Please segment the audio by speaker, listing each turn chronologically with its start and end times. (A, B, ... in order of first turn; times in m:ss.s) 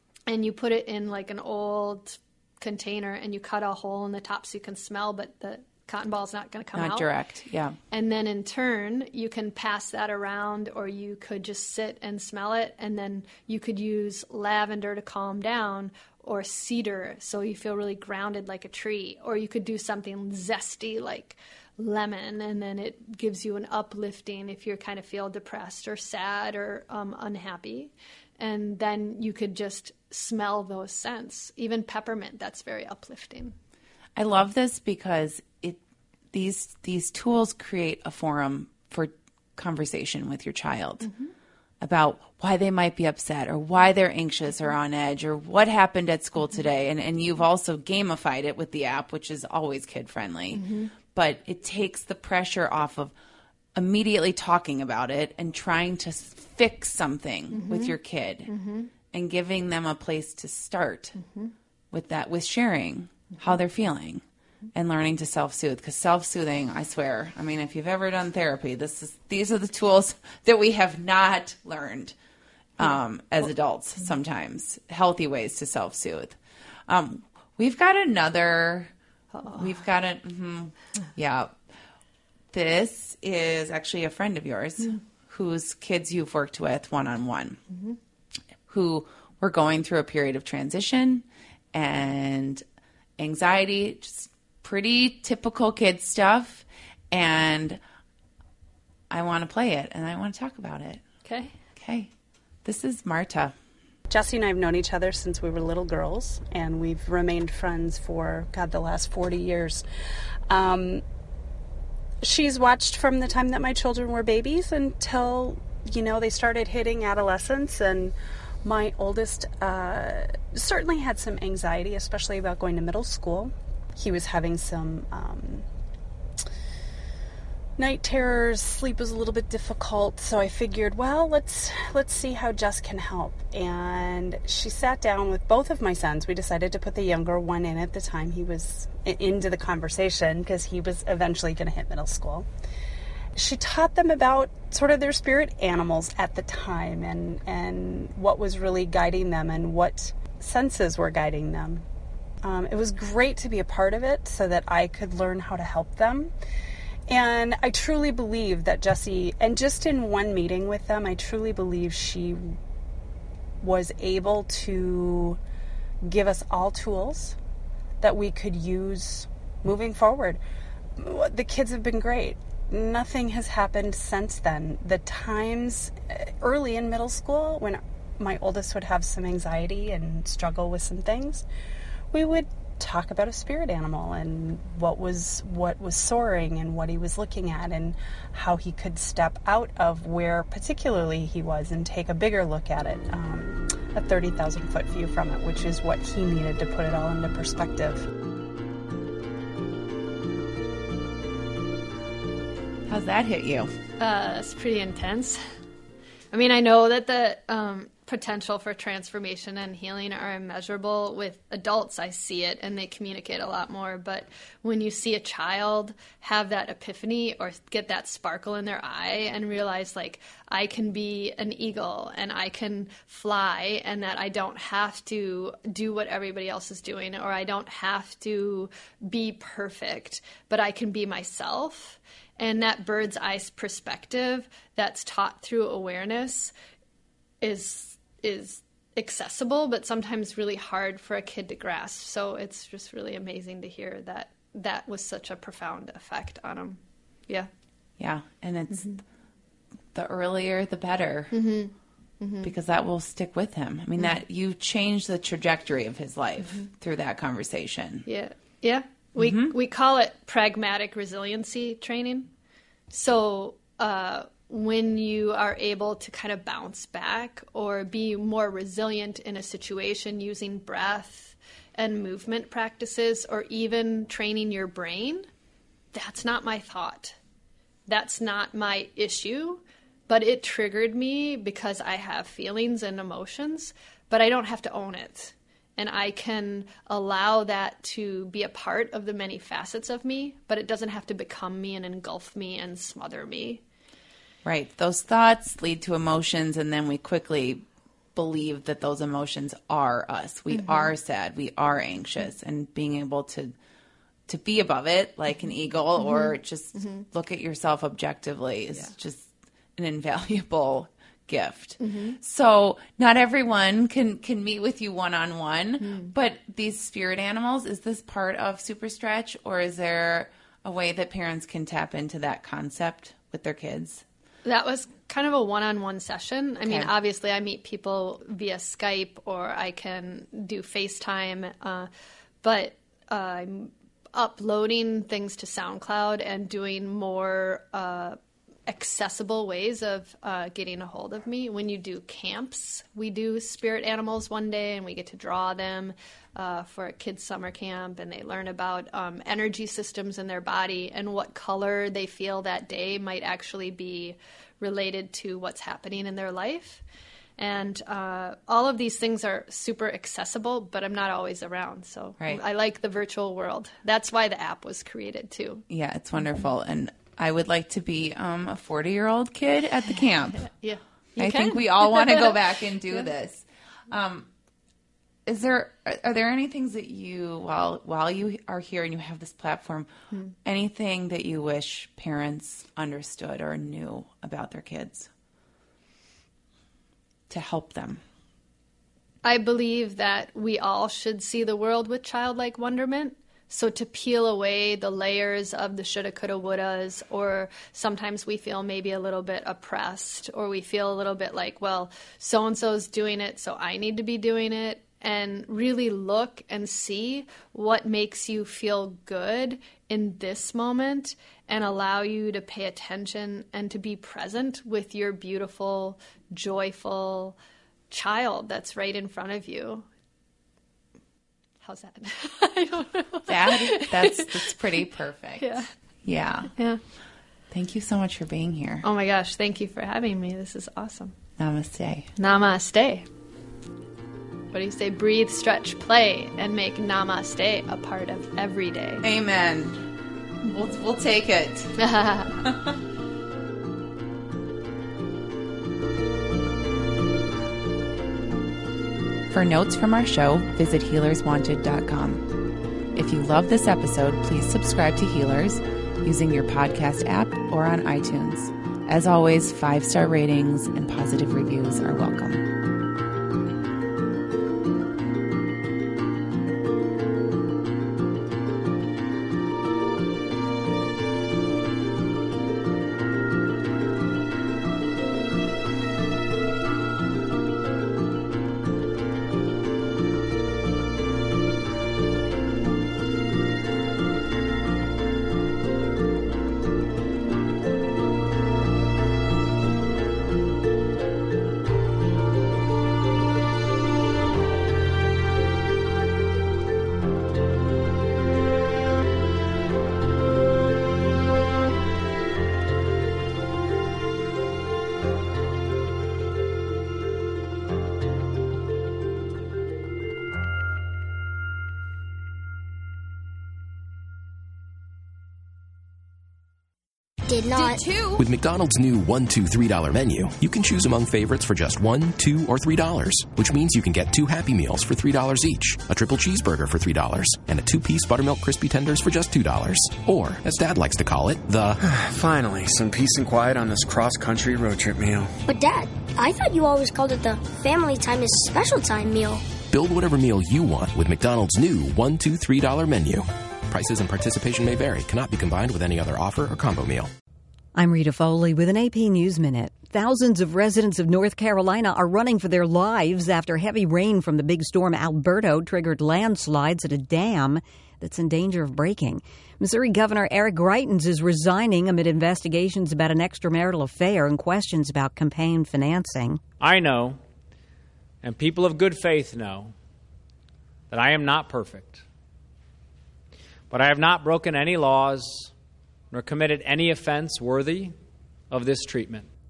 0:00.3-0:07.1 A
0:06.7-0:07.8 B
0:07.9-0:33.5 A
0:34.2-0:35.8 B
0:36.3-0:41.1 B
0:41.0-0:41.3 A
0:41.8-0:53.1 B
0:50.5-0:50.9 A
0:53.7-0:58.5 B
0:57.5-0:57.9 A
0:58.5-0:58.9 A
0:59.1-1:01.2 B
1:01.2-1:01.5 A
1:01.9-1:12.1 B
1:12.8-1:18.9 B
1:19.3-1:19.7 A
1:19.5-1:21.6 B
1:22.5-1:27.6 B
1:28.7-1:32.6 B
1:33.2-1:37.8 B
1:39.1-1:41.0 B
1:41.2-1:41.5 A
1:41.8-1:42.1 B
1:42.6-1:43.5 B
1:44.1-1:49.8 C
1:50.5-1:51.0 C
1:52.2-2:05.6 C
2:07.8-2:22.5 C
2:23.3-2:31.8 C
2:32.4-2:36.3 C
2:37.1-2:42.6 C
2:43.6-2:45.4 C
2:46.0-2:47.4 C
2:48.0-2:50.4 C
2:51.0-3:01.4 C
3:02.1-3:18.1 C
3:22.9-3:23.7 B
3:24.0-3:25.4 A
3:26.3-3:56.5 A
3:57.4-4:07.5 A
4:08.0-4:09.0 B
4:09.9-4:11.3 B
4:11.3-4:12.5 A
4:12.4-4:18.0 B
4:18.0-4:22.3 A
4:19.2-4:19.5 B
4:22.9-4:35.3 A
4:35.9-4:37.2 A
4:37.9-4:53.6 A
4:54.4-5:03.5 B
5:00.6-5:00.9 A
5:04.3-5:24.0 B
5:06.0-5:07.0 A
5:11.8-5:12.2 A
5:15.8-5:16.1 A
5:24.4-5:31.9 A
5:26.6-5:26.9 B
5:32.4-5:56.8 A
5:57.4-6:05.6 A
6:05.7-6:10.5 B
6:10.4-6:12.4 A
6:11.2-6:14.3 B
6:15.2-6:19.9 B
6:20.4-6:25.1 B
6:27.3-6:28.0 B
6:29.2-6:57.4 A
6:57.9-6:59.9 A
7:01.6-7:04.6 A
7:03.3-7:06.5 B
7:05.4-7:05.7 A
7:06.5-7:06.8 A
7:07.5-7:08.8 B
7:08.8-7:11.1 A
7:11.4-7:12.1 B
7:12.2-7:13.0 A
7:14.5-7:19.0 A
7:19.0-7:19.9 B
7:20.4-7:21.8 B
7:21.8-7:22.4 A
7:22.4-7:22.8 B
7:29.3-7:32.2 B
7:32.9-7:42.4 B
8:37.3-8:37.8 D
8:38.1-8:51.8 E
8:51.8-8:55.3 F
8:55.4-8:59.5 D
8:59.6-9:07.1 E
9:07.7-9:26.4 G
9:26.6-9:27.2 H
9:28.2-9:29.7 H
9:30.9-9:32.0 H
9:33.7-9:35.5 H
9:36.1-9:37.9 H
9:38.5-9:39.3 H